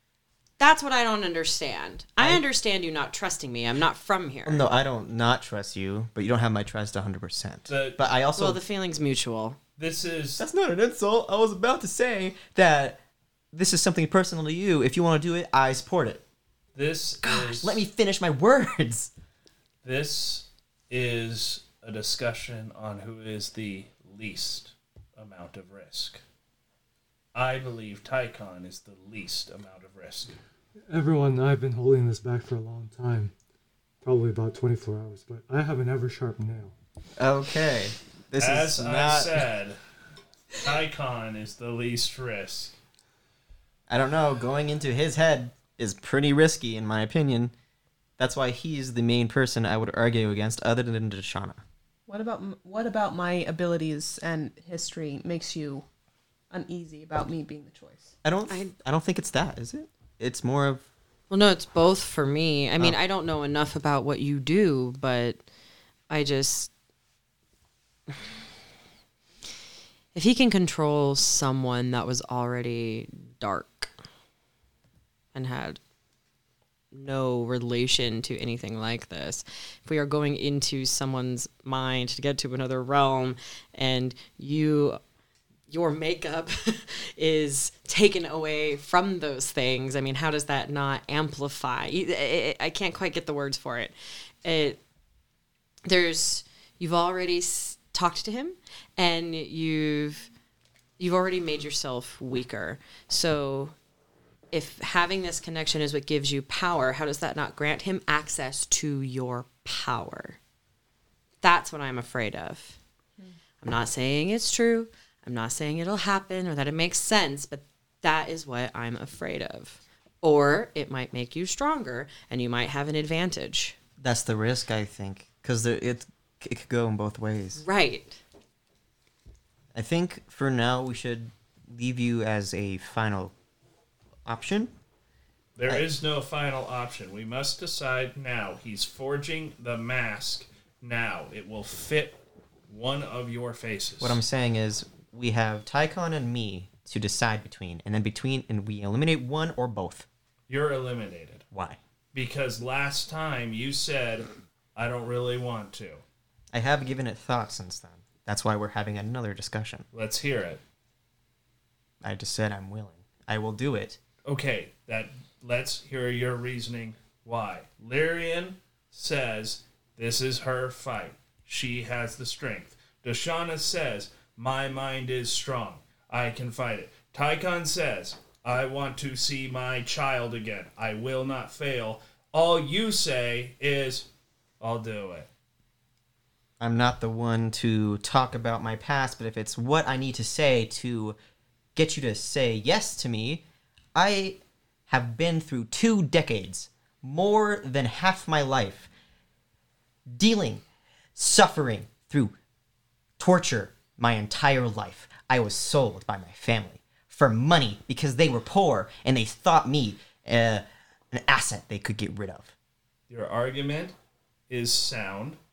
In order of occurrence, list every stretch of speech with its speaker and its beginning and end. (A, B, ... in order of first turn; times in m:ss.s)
0:00.6-0:04.6 A
0:04.4-0:08.6 B
0:07.7-0:08.0 C
0:08.4-0:09.6 A
0:09.8-0:10.4 C
0:10.4-0:13.0 B
0:13.5-0:16.2 B
0:16.8-0:17.8 C
0:17.2-0:19.1 B
0:19.8-0:26.2 C
0:27.4-0:30.4 C
0:30.9-0:33.3 D
0:34.0-0:36.7 D
0:37.2-0:39.5 B
0:38.4-0:39.8 C
0:40.6-0:42.8 C
0:43.9-0:47.5 B
0:48.2-0:51.6 B
0:52.1-0:55.8 E
0:56.5-0:58.1 E
0:58.2-1:00.8 B
0:58.5-0:58.7 A
1:01.3-1:05.4 A
1:06.1-1:06.7 A
1:10.1-1:13.9 A
1:15.3-1:15.8 A
1:16.9-1:25.0 A
1:25.7-1:34.8 A
1:35.9-1:40.3 A
1:41.0-1:43.7 A
1:44.5-1:50.4 A
1:51.4-1:52.8 A
1:53.6-2:03.8 A
2:04.0-2:07.6 B
2:07.6-2:08.2 A
2:09.7-2:13.3 B
2:14.2-2:14.7 B
2:15.6-2:22.2 C
2:22.7-2:24.2 C
2:24.0-2:30.1 B
2:30.5-2:31.4 C
2:31.5-2:31.8 B
2:32.1-2:36.0 C
2:36.5-2:39.8 B
2:39.9-2:40.6 C
2:42.0-2:44.0 B
2:44.3-3:04.1 C
3:04.6-3:05.3 C
3:06.6-3:11.2 B
3:11.8-3:13.4 B
3:14.0-3:18.9 B
3:20.1-3:20.6 B
3:21.2-3:22.4 B
3:23.2-3:32.5 B
3:33.1-3:34.0 C
3:34.5-3:35.4 C